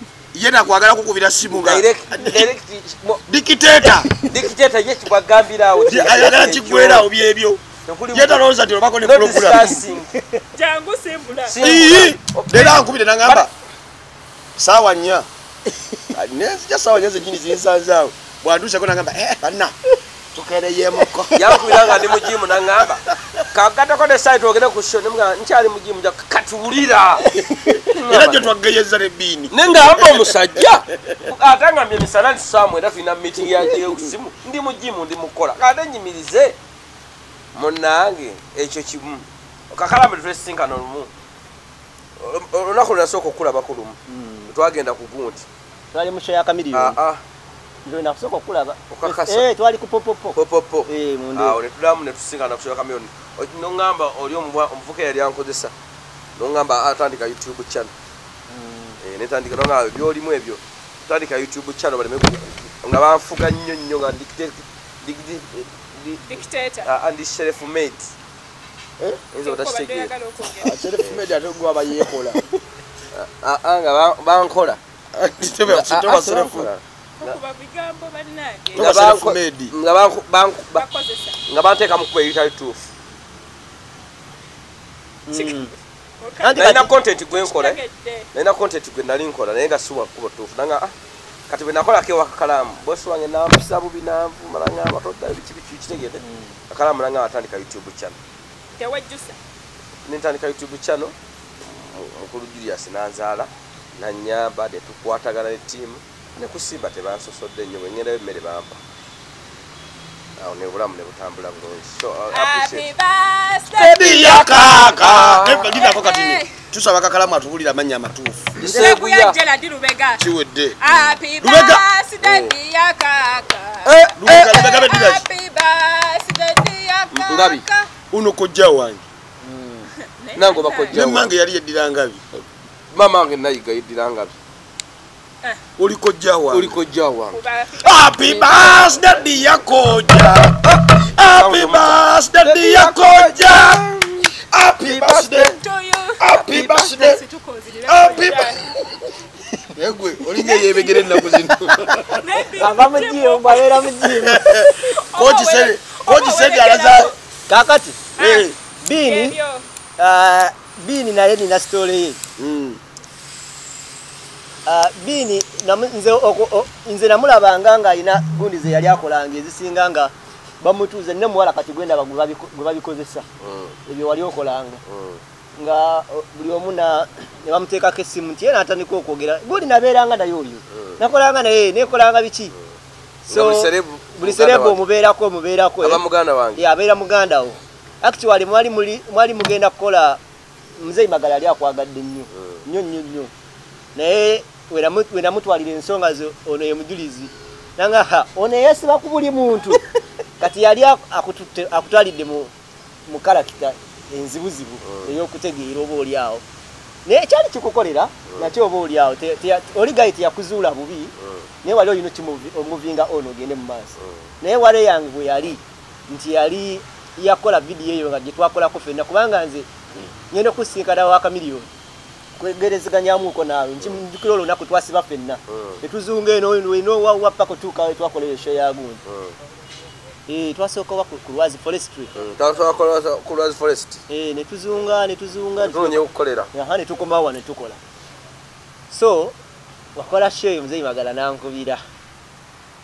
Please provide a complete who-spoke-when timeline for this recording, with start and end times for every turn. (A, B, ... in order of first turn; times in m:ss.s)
0:00.3-0:02.5 A
0:01.5-0:03.2 B
0:03.3-0:04.1 A
0:04.1-0:07.1 B
0:05.9-0:09.8 A
0:07.8-0:08.4 B
0:09.0-0:10.1 B
0:10.5-0:12.0 C
0:11.5-0:13.5 B
0:11.6-0:13.5 A
0:14.6-0:15.3 A
0:16.1-0:19.7 A
0:20.3-0:22.2 A
0:21.3-0:27.3 B
0:23.0-0:23.4 A
0:27.9-0:28.5 B
0:28.0-0:30.3 A
0:29.5-0:36.6 B
0:37.5-0:41.1 B
0:42.2-0:44.0 B
0:44.1-0:44.5 D
0:44.5-0:45.4 B
0:45.9-0:47.0 D
0:46.7-0:47.2 B
0:47.8-0:50.4 D
0:48.9-0:49.5 B
0:50.3-0:55.7 B
0:50.9-0:51.6 D
0:56.4-0:57.9 B
0:58.5-0:59.0 D
0:59.0-1:08.1 B
1:06.2-1:06.9 C
1:09.3-1:10.1 B
1:09.4-1:10.9 C
1:10.6-1:12.4 A
1:13.1-1:14.8 B
1:15.1-1:16.7 A
1:15.7-1:17.4 B
1:17.2-1:18.9 C
1:18.7-1:19.7 A
1:18.8-1:20.8 B
1:20.7-1:21.4 C
1:21.5-1:22.9 B
1:25.3-1:25.7 D
1:25.3-1:28.3 C
1:26.4-1:26.9 D
1:26.5-1:27.8 B
1:28.3-1:30.9 B
1:31.5-1:38.2 B
1:36.2-1:36.6 D
1:38.8-1:39.4 C
1:40.0-1:48.8 B
1:50.4-1:52.9 B
1:52.3-1:54.8 C
1:53.7-1:58.5 A
1:54.5-1:55.7 B
1:55.7-1:56.5 C
1:58.6-1:59.4 B
1:58.6-2:00.3 C
2:00.2-2:00.8 A
2:00.8-2:07.9 C
2:00.8-2:01.2 B
2:01.4-2:01.8 A
2:02.2-2:02.5 B
2:03.8-2:04.7 B
2:04.2-2:05.2 A
2:07.1-2:07.6 B
2:08.1-2:09.0 A
2:09.4-2:09.9 D
2:10.2-2:11.0 C
2:10.4-2:11.3 B
2:10.9-2:12.2 A
2:12.9-2:14.3 B
2:15.8-2:16.8 A
2:16.5-2:17.4 B
2:17.3-2:18.8 C
2:17.8-2:23.8 A
2:21.2-2:24.3 B
2:24.5-2:25.6 A
2:24.8-2:25.5 B
2:25.4-2:28.6 C
2:26.2-2:27.2 A
2:26.3-2:26.9 B
2:27.9-2:28.8 A
2:29.7-2:32.4 A
2:30.3-2:31.3 C
2:32.1-2:37.1 C
2:32.6-2:34.4 D
2:34.2-2:37.1 A
2:37.5-2:38.1 D
2:38.2-2:39.6 C
2:38.2-2:38.5 A
2:38.8-2:39.4 D
2:40.0-2:42.2 D
2:42.4-2:42.8 A
2:44.6-2:53.2 D
2:53.4-2:53.8 B
2:53.9-2:54.8 D
2:54.8-2:55.2 B
2:55.6-3:02.5 D
3:00.7-3:01.0 B
3:03.2-3:06.0 D
3:03.3-3:04.8 B
3:05.8-3:06.6 B
3:06.6-3:10.2 D
3:10.8-3:13.3 D
3:12.3-3:12.6 B
3:13.9-3:19.8 D
3:20.4-3:22.5 D
3:23.1-3:26.4 D
3:24.8-3:25.1 B
3:27.0-3:31.1 D
3:31.2-3:31.5 B
3:31.6-3:39.7 D
3:40.3-3:41.7 D
3:42.4-3:49.0 D
3:45.5-3:45.8 B
3:49.0-3:49.3 B
3:50.3-3:52.1 D
3:52.2-3:54.0 B
3:54.1-3:57.8 D
3:55.6-3:56.5 B
3:58.9-3:59.4 D
4:00.0-4:01.8 D